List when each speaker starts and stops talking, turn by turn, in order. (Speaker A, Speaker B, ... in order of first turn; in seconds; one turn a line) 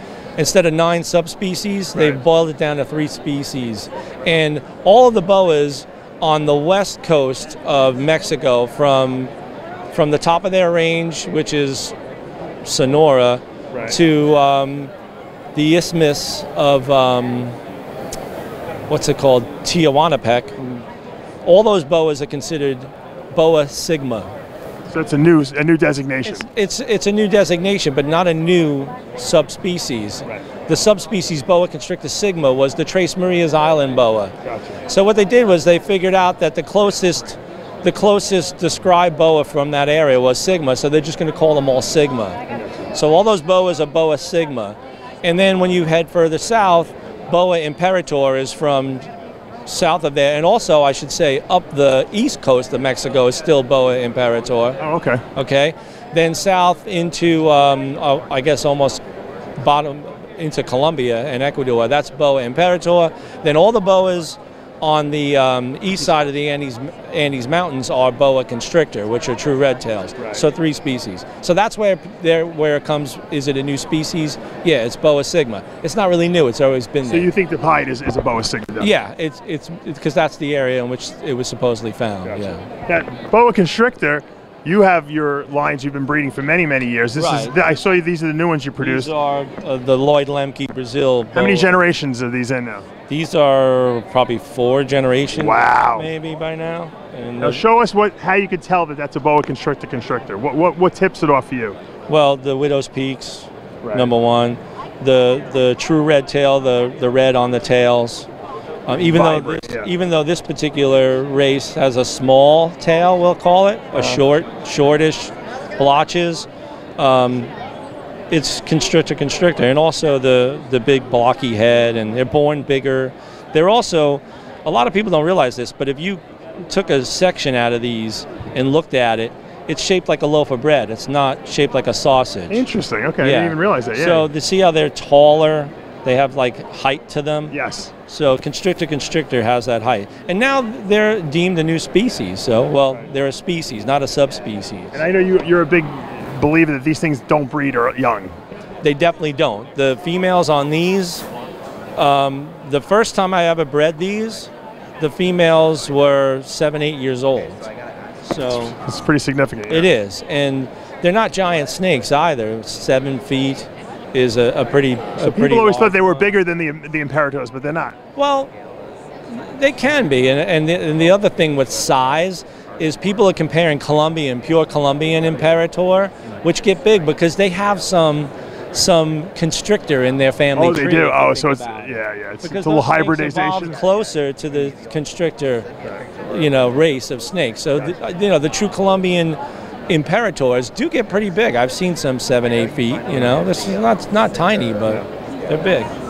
Speaker A: 0.4-9.3
Speaker B: 1.9-2.2
Speaker A: 9.9-12.0
Speaker A: 12.6-14.9
Speaker B: 13.7-14.0
Speaker A: 15.5-17.6
Speaker A: 18.9-20.8
Speaker A: 21.4-24.3
Speaker B: 24.9-26.5
Speaker A: 26.3-34.4
Speaker B: 34.4-34.8
Speaker A: 34.9-42.4
Speaker B: 42.5-42.9
Speaker A: 42.9-49.1
Speaker A: 49.7-54.8
Speaker B: 54.8-55.2
Speaker A: 55.4-59.0
Speaker A: 59.6-77.3
Speaker B: 70.2-70.5
Speaker B: 77.0-78.9
Speaker A: 78.8-82.7
Speaker B: 82.2-89.1
Speaker A: 87.2-87.6
Speaker A: 88.8-91.7
Speaker B: 91.3-92.9
Speaker A: 93.1-97.6
Speaker B: 95.3-96.1
Speaker B: 97.4-101.8
Speaker A: 102.1-108.3
Speaker B: 103.8-104.1
Speaker A: 108.9-117.5
Speaker B: 108.9-109.9
Speaker B: 113.9-114.3
Speaker A: 118.3-132.7
Speaker B: 132.5-134.3
Speaker A: 133.2-137.6
Speaker B: 137.5-137.9
Speaker A: 138.1-145.0
Speaker B: 144.9-148.3
Speaker A: 148.8-151.3
Speaker A: 152.0-157.7
Speaker A: 158.2-158.8
Speaker B: 158.8-159.9
Speaker A: 159.7-166.3
Speaker B: 165.2-168.0
Speaker A: 168.2-168.5
Speaker A: 169.3-185.7
Speaker B: 180.5-183.8
Speaker A: 186.2-195.9